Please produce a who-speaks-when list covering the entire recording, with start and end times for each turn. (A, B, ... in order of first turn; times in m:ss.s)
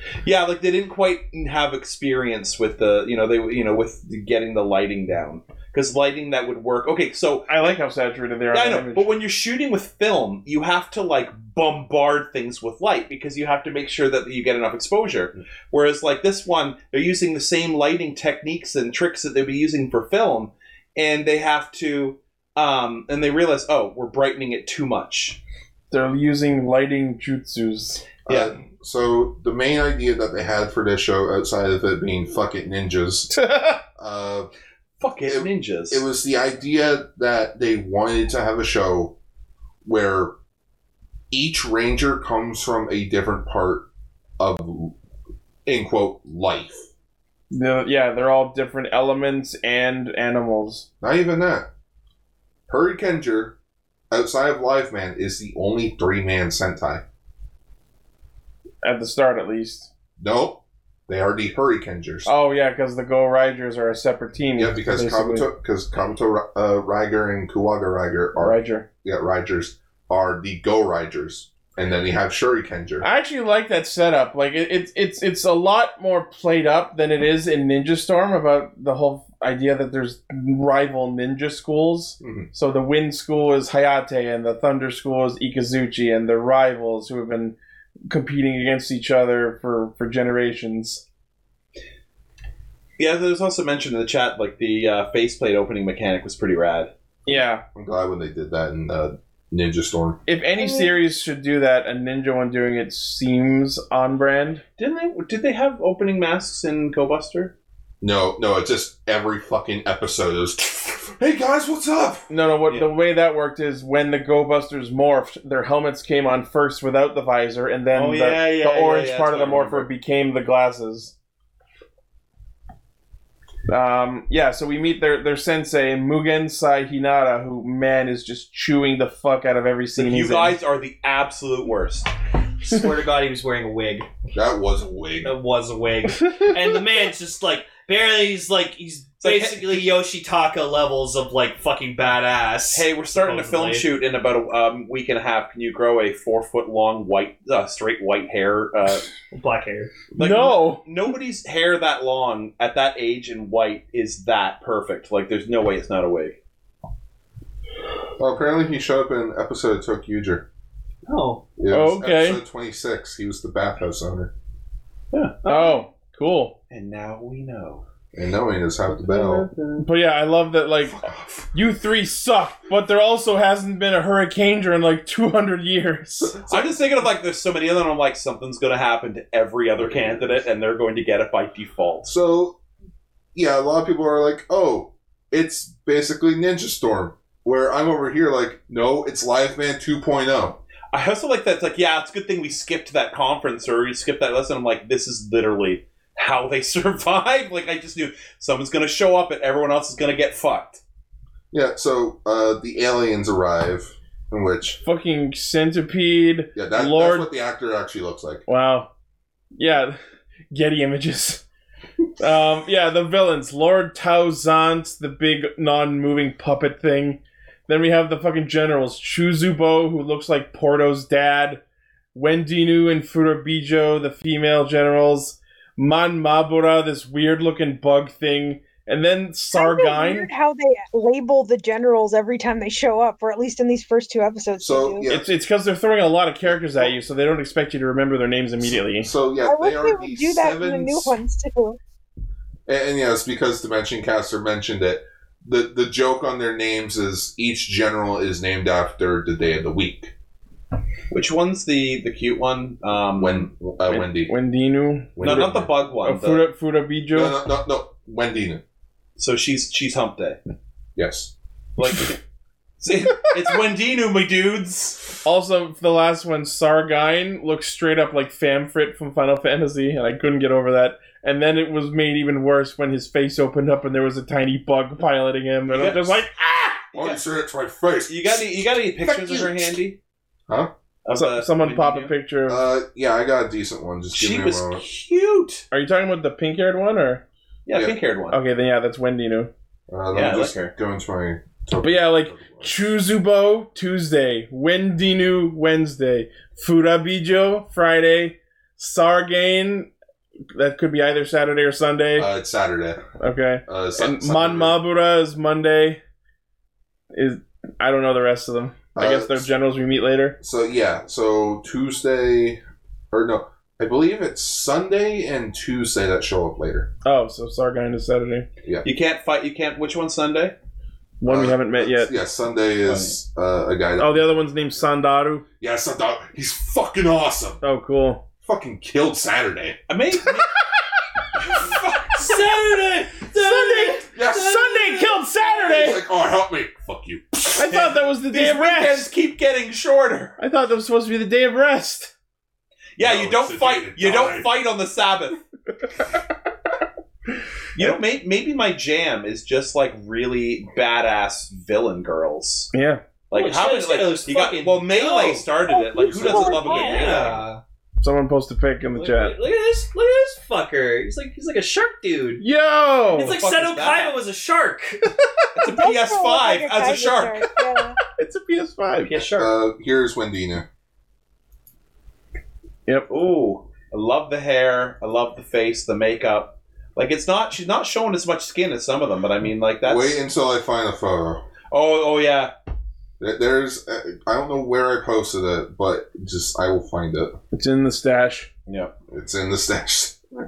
0:00.2-0:07.8 A
0:07.5-0:09.1 B
0:08.5-0:25.4 A
0:25.9-0:28.0 B
0:28.3-0:33.3 C
0:28.3-0:28.5 A
0:33.3-0:33.8 B
0:34.0-0:34.5 C
0:35.0-0:36.0 A
0:35.3-0:39.2 C
0:39.8-0:40.4 C
0:41.3-0:43.9 C
0:44.4-0:44.9 C
0:45.6-0:46.9 C
0:47.5-0:50.8 B
0:51.0-0:51.7 C
0:52.7-0:53.6 C
0:54.1-0:57.0 C
0:58.8-0:59.9 B
1:00.2-1:02.3 C
1:02.3-1:05.5 B
1:04.6-1:13.0 C
1:08.4-1:08.8 B
1:13.0-1:27.6 B
1:22.2-1:22.5 C
1:28.1-1:31.0 B
1:33.0-1:36.9 A
1:37.3-1:37.6 B
1:37.7-1:40.2 C
1:40.3-1:44.6 B
1:40.6-1:40.9 D
1:44.8-1:47.5 A
1:48.0-1:52.3 C
1:52.3-2:01.1 B
1:57.9-1:59.9 A
2:03.7-2:10.6 B
2:10.0-2:12.1 A
2:12.6-2:14.1 E
2:14.3-2:15.3 C
2:15.2-2:23.9 E
2:19.2-2:19.9 A
2:22.7-2:29.1 A
2:29.3-2:30.0 E
2:30.1-2:36.4 A
2:30.2-2:30.8 B
2:38.2-2:40.4 C
2:41.1-2:41.4 E
2:41.6-2:44.3 C
2:41.7-2:42.4 B
2:45.1-2:45.8 A
2:45.4-2:46.6 B
2:46.7-2:47.8 A
2:48.1-2:49.5 C
2:48.9-2:49.9 A
2:49.8-2:51.0 B
2:50.9-2:51.4 C
2:51.5-2:56.4 B
2:56.2-2:56.8 C
2:56.5-3:02.1 A
2:59.8-3:00.4 C
3:02.0-3:02.6 C
3:03.4-3:10.6 C
3:10.9-3:20.8 A
3:21.5-3:24.8 C
3:24.8-3:27.3 B
3:26.6-3:28.4 C
3:28.5-3:28.9 B
3:29.6-3:30.0 B
3:30.5-3:31.4 B
3:32.2-3:41.6 B
3:42.1-3:50.3 B
3:49.5-3:55.1 D
3:54.6-3:55.3 C
3:55.1-3:59.1 B
3:56.4-3:56.9 C
3:58.6-4:01.2 C
3:59.4-4:01.8 D
4:02.7-4:10.1 C
4:11.1-4:13.5 A
4:13.2-4:14.4 C
4:13.9-4:17.4 B
4:15.2-4:15.7 C
4:15.2-4:16.5 A
4:17.1-4:18.6 C
4:19.2-4:20.4 A
4:21.0-4:21.3 C
4:21.8-4:22.2 A
4:22.8-4:25.0 A
4:25.2-4:36.9 B
4:35.7-4:36.2 A
4:36.9-4:38.5 C
4:38.1-4:40.0 A
4:41.0-4:42.1 A
4:41.1-4:42.6 B
4:42.5-4:44.8 C
4:44.1-4:45.6 A
4:45.7-4:47.2 B
4:47.6-4:48.4 A
4:48.3-4:49.5 B
4:49.9-4:52.9 C
4:50.1-4:50.7 A
4:51.8-4:59.9 B
5:00.5-5:02.3 B
5:02.2-5:03.0 C
5:03.2-5:06.0 B
5:03.6-5:04.8 C
5:07.1-5:10.4 B
5:08.9-5:09.5 C
5:10.4-5:16.9 C
5:17.0-5:18.5 B
5:18.8-5:20.5 A
5:21.2-5:22.1 B
5:21.2-5:24.4 C
5:22.8-5:23.1 A
5:24.0-5:25.4 B
5:25.6-5:27.6 C
5:27.6-5:28.2 B
5:28.4-5:29.8 C
5:29.9-5:30.5 A
5:31.4-5:32.5 A
5:32.2-5:34.3 E
5:33.3-5:36.0 B
5:34.1-5:34.7 C
5:35.6-5:37.7 C
5:37.6-5:39.1 B
5:37.7-5:40.4 A
5:40.4-5:42.1 B
5:43.0-5:45.4 A
5:43.0-5:44.6 C
5:47.7-5:52.7 A
5:52.7-5:53.0 B
5:53.3-5:57.4 A
5:53.3-5:55.5 E
5:55.7-5:57.3 D
5:56.1-5:57.6 E
5:58.0-5:59.4 B
5:59.0-6:02.4 E
6:02.4-6:03.4 B
6:03.1-6:04.1 A
6:03.1-6:05.1 E
6:05.6-6:07.4 A
6:05.7-6:08.0 D
6:08.2-6:09.1 B
6:09.1-6:09.5 E
6:09.3-6:10.6 C
6:13.1-6:20.2 A
6:19.8-6:21.4 C
6:21.7-6:22.5 A
6:23.2-6:27.4 C
6:27.5-6:28.5 B
6:28.7-6:28.9 A
6:29.1-6:30.1 C